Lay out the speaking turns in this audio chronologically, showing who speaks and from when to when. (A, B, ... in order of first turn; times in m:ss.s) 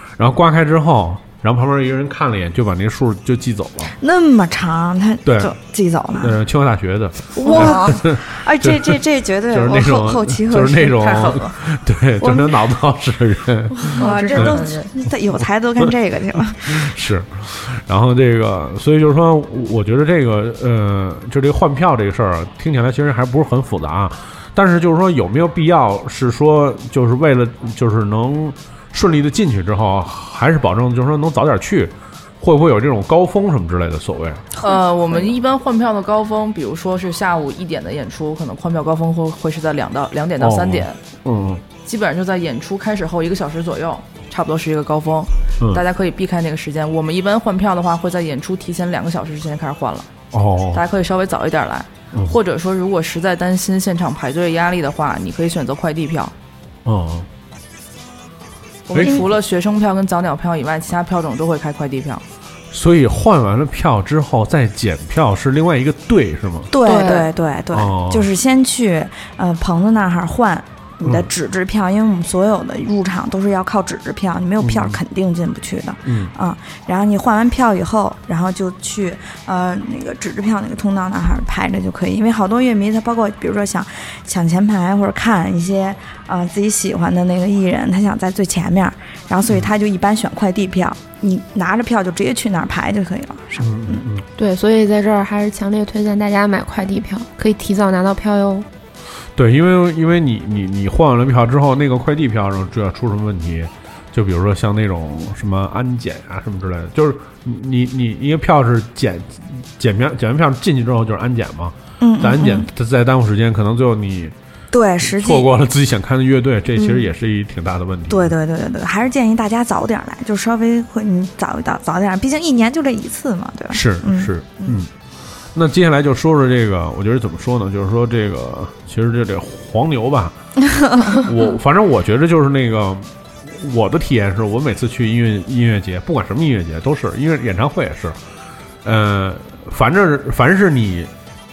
0:00.2-0:03.9 A
0:03.9-0:06.4 B
0:05.2-0:05.5 A
0:06.1-0:14.6 A
0:07.4-0:11.5 B
0:11.1-0:11.4 C
0:12.2-0:12.6 B
0:13.7-0:16.9 B
0:13.9-0:14.9 D
0:16.6-0:34.5 A
0:34.6-0:41.0 C
0:40.4-0:41.6 A
0:41.8-0:50.1 C
0:50.3-0:50.8 A
0:50.7-0:56.3 C
0:56.8-0:57.3 A
0:58.9-1:02.2 C
0:58.9-0:59.3 A
0:59.0-0:59.3 B
1:02.7-1:06.7 A
1:06.7-1:34.0 B
1:06.8-1:07.3 D
1:07.7-1:08.3 A
1:11.0-1:11.3 A
1:14.6-1:15.0 A
1:16.0-1:16.3 A
1:33.6-1:34.2 A
1:34.4-1:38.7 D
1:39.4-1:54.3 A
1:52.0-1:52.7 B
1:54.7-1:55.5 B
1:55.0-1:58.3 A
1:56.8-1:57.1 B
1:58.1-2:04.8 B
2:03.7-2:04.9 A
2:05.5-2:10.4 A
2:10.7-2:11.2 B
2:11.0-2:18.2 A
2:18.8-2:21.1 A